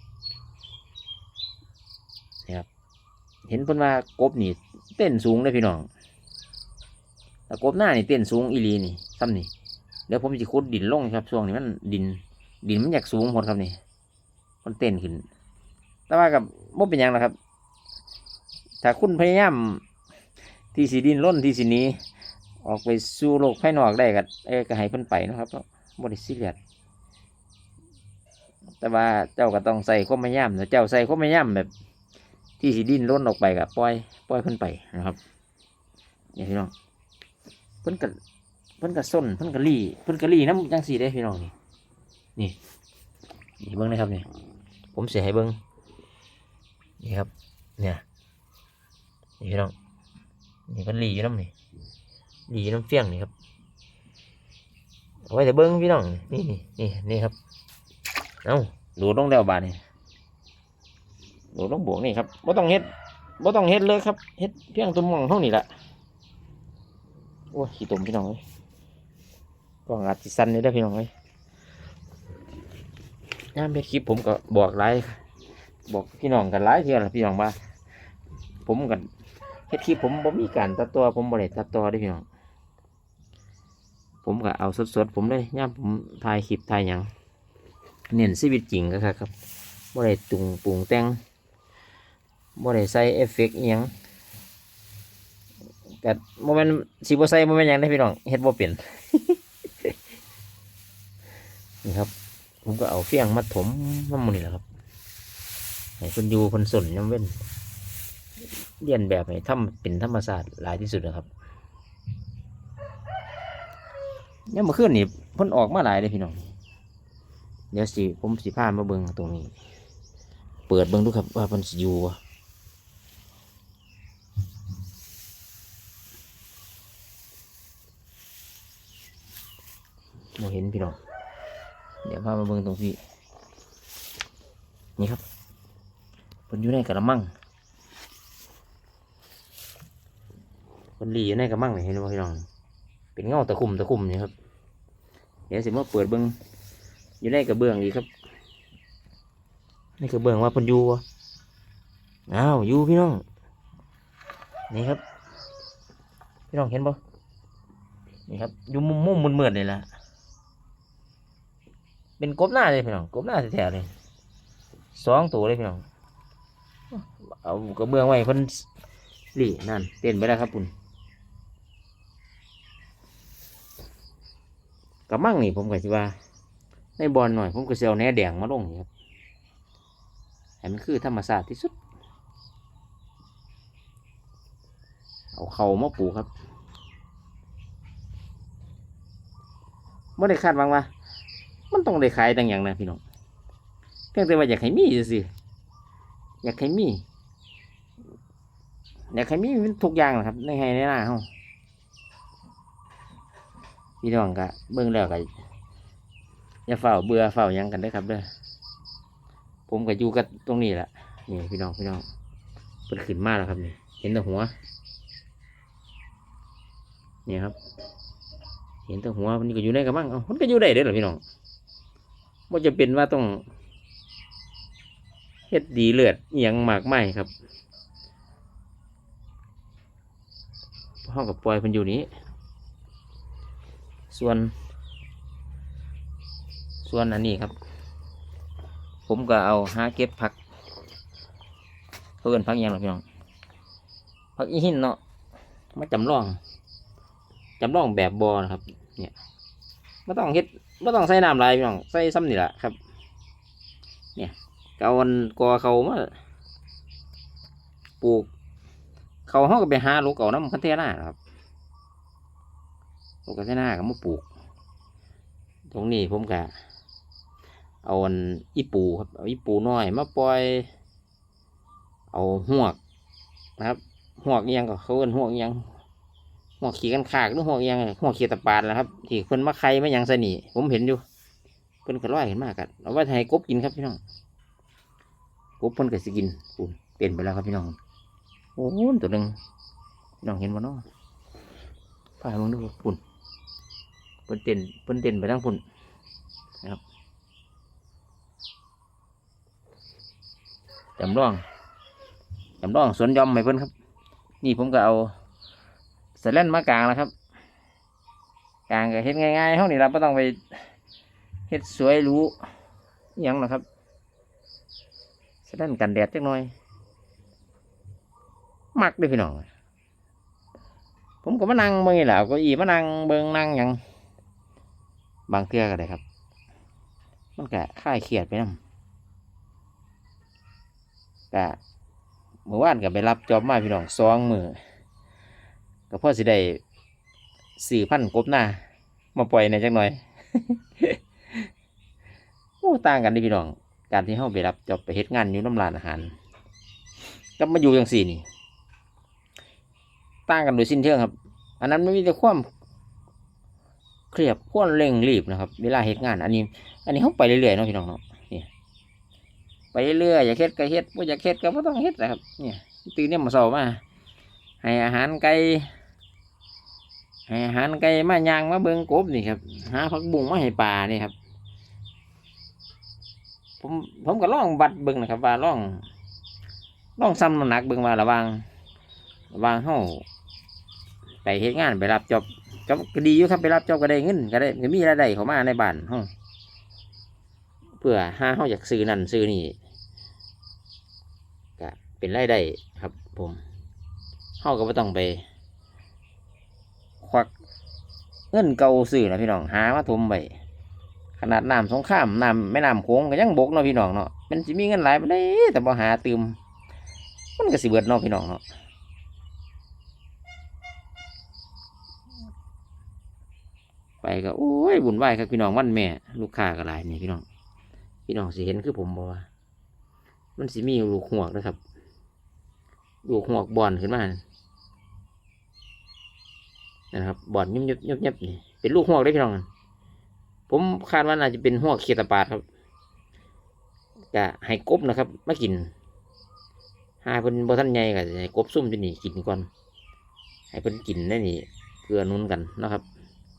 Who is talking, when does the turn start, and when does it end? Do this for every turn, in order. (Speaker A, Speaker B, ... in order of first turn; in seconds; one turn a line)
Speaker A: 3.5-5.9
Speaker A: 7.5-9.5
Speaker A: 10.1-13.8
Speaker A: 14.6-15.2
Speaker A: 16.1-17.3
Speaker A: 18.8-19.8
Speaker A: 20.7-22.0
Speaker A: 22.6-26.6
Speaker A: 28.8-31.7
Speaker A: 32.6-35.2
Speaker A: 36.3-36.7
Speaker A: 37.8-38.1
Speaker A: 38.8-41.5
Speaker A: 43.6-44.2
Speaker A: 44.9-45.6
Speaker A: 47.0-48.0
Speaker A: 49.4-49.7
Speaker A: 50.7-51.5
Speaker A: 52.5-53.3
Speaker A: 55.3-57.3
Speaker A: 58.4-59.8
Speaker A: 61.5-62.9
Speaker A: 63.4-65.7
Speaker A: 67.5-68.4
Speaker A: 69.9-71.1
Speaker A: 73.5-75.2
Speaker A: 75.9-77.5
Speaker A: 78.7-79.0
Speaker A: 79.7-82.2
Speaker A: 84.2-87.1
Speaker A: 88.1-89.3
Speaker A: 89.9-91.2
Speaker A: 92.6-93.9
Speaker A: 96.0-99.9
Speaker A: 101.8-102.1
Speaker A: 102.6-104.6
Speaker A: 106.0-107.3
Speaker A: 108.8-111.3
Speaker A: 114.5-116.4
Speaker A: 117.7-119.5
Speaker A: 120.7-122.2
Speaker A: 130.4-131.0
Speaker A: 132.0-133.0
Speaker A: 136.5-137.3
Speaker A: 141.0-142.4
Speaker A: 143.1-144.3
Speaker A: 145.5-146.3
Speaker A: 147.2-148.1
Speaker A: 150.0-151.0
Speaker A: 152.3-153.2
Speaker A: 154.7-155.0
Speaker A: 156.5-157.0
Speaker A: 158.3-159.9
Speaker A: 162.2-163.9
Speaker A: 164.9-165.8
Speaker A: 166.9-168.7
Speaker A: 169.3-170.7
Speaker A: 175.1-176.1
Speaker A: 177.0-178.9
Speaker A: 180.6-181.7
Speaker A: 185.3-186.3
Speaker A: 190.2-190.9
Speaker A: 191.7-193.0
Speaker A: 194.1-195.3
Speaker A: 196.4-197.0
Speaker A: 199.1-201.3
Speaker A: 204.0-205.3
Speaker A: 206.7-208.3
Speaker A: 209.7-212.1
Speaker A: 212.9-214.5
Speaker A: 217.3-217.6
Speaker A: 218.9-221.2
Speaker A: 222.5-223.4
Speaker A: 225.5-227.3
Speaker A: 231.0-232.1
Speaker A: 234.1-234.5
Speaker A: 236.8-237.5
Speaker A: 239.1-240.3
Speaker A: 242.2-243.0
Speaker A: 244.3-245.0
Speaker A: 245.7-246.4
Speaker A: 247.6-249.1
Speaker A: 250.1-252.8
Speaker A: 254.2-256.1
Speaker A: 258.0-258.3
Speaker A: 259.3-261.2
Speaker A: 263.3-264.3
Speaker A: 265.7-266.5
Speaker A: 267.8-270.7
Speaker A: 272.1-272.8
Speaker A: 273.6-275.7
Speaker A: 276.6-281.0
Speaker A: 281.8-284.0
Speaker A: 285.6-287.8
Speaker A: 288.6-289.4
Speaker A: 290.2-290.8
Speaker A: 292.2-293.0
Speaker A: 294.3-295.6
Speaker A: 301.0-301.4
Speaker A: 302.6-303.7
Speaker A: 304.4-305.1
Speaker A: 306.2-307.1
Speaker A: 308.7-310.4
Speaker A: 311.5-312.3
Speaker A: 313.2-313.6
Speaker A: 315.4-316.5
Speaker A: 318.7-319.5
Speaker A: 321.2-323.8
Speaker A: 325.3-326.0
Speaker A: 327.4-328.6
Speaker A: 331.3-331.6
Speaker A: 332.5-334.6
Speaker A: 335.9-336.6
Speaker A: 337.6-338.6
Speaker A: 339.1-341.4
Speaker A: 342.6-346.1
Speaker A: 347.4-348.2
Speaker A: 350.3-352.5
Speaker A: 354.1-358.5
Speaker A: 359.7-363.8
Speaker A: 364.6-365.7
Speaker A: 367.3-371.1
Speaker A: 373.6-375.8
Speaker A: 377.0-378.4
Speaker A: 379.3-380.0
Speaker A: 381.2-386.1
Speaker A: 387.8-389.6
Speaker A: 391.6-393.4
Speaker A: 394.4-395.2
Speaker A: 397.0-397.3
Speaker A: 398.3-400.3
Speaker A: 401.2-406.4
Speaker A: 407.4-408.4
Speaker A: 414.0-417.2
Speaker A: 418.1-419.3
Speaker A: 420.4-421.6
Speaker A: 423.1-424.2
Speaker A: 426.9-429.4
Speaker A: 430.5-432.4
Speaker A: 434.1-435.7
Speaker A: 437.0-439.5
Speaker A: 440.5-442.8